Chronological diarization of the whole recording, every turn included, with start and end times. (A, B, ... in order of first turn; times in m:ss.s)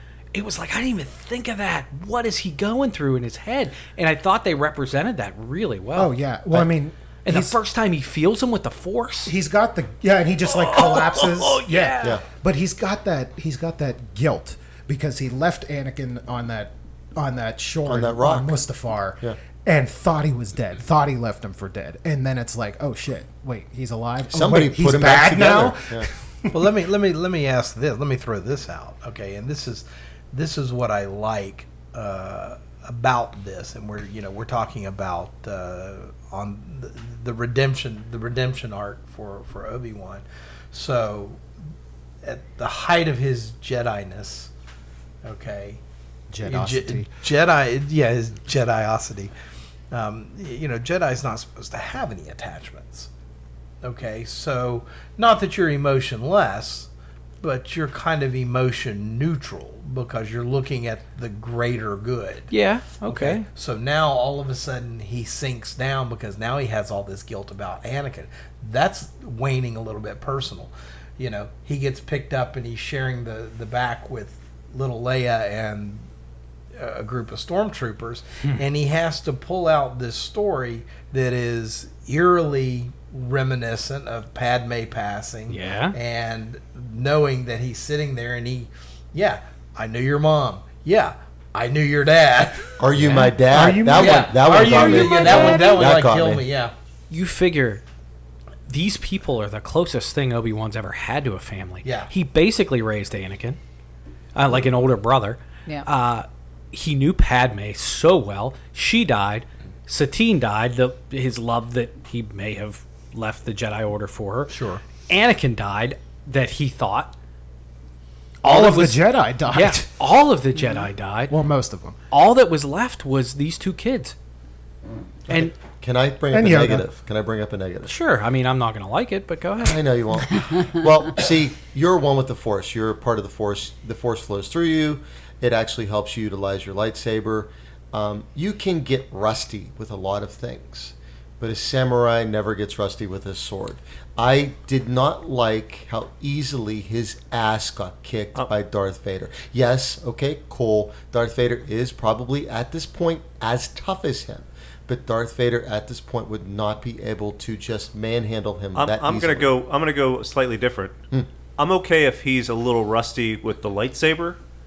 0:00.3-0:06.7 A
0:05.9-0:07.6 B
0:07.2-0:09.3 A
0:09.3-0:26.7 B
0:10.5-0:12.2 A
0:17.8-0:18.6 C
0:24.3-0:26.1 C
0:26.5-0:41.4 D
0:42.2-0:44.5 D
0:45.2-0:45.8 D
0:46.3-0:47.1 B
0:46.4-0:49.3 D
0:49.9-0:53.1 D
0:53.8-0:56.9 D
0:57.4-1:02.5 D
1:02.5-1:03.4 A
1:03.0-1:16.0 D
1:16.7-1:32.8 D
1:25.5-1:25.9 A
1:32.8-1:36.4 C
1:33.0-1:33.3 A
1:33.4-1:35.6 B
1:33.9-1:36.7 D
1:37.1-1:37.8 A
1:38.7-1:43.6 A
1:41.8-1:42.1 D
1:44.3-1:57.1 A
1:54.5-1:54.8 D
1:58.4-1:59.9 B
1:58.4-2:01.4 A
2:01.3-2:02.0 B
2:02.1-2:04.1 A
2:05.3-2:05.5 A
2:05.3-2:07.9 C
2:06.3-2:06.8 B
2:07.9-2:09.8 A
2:09.6-2:39.5 C
2:38.8-2:41.0 E
2:41.6-2:44.4 E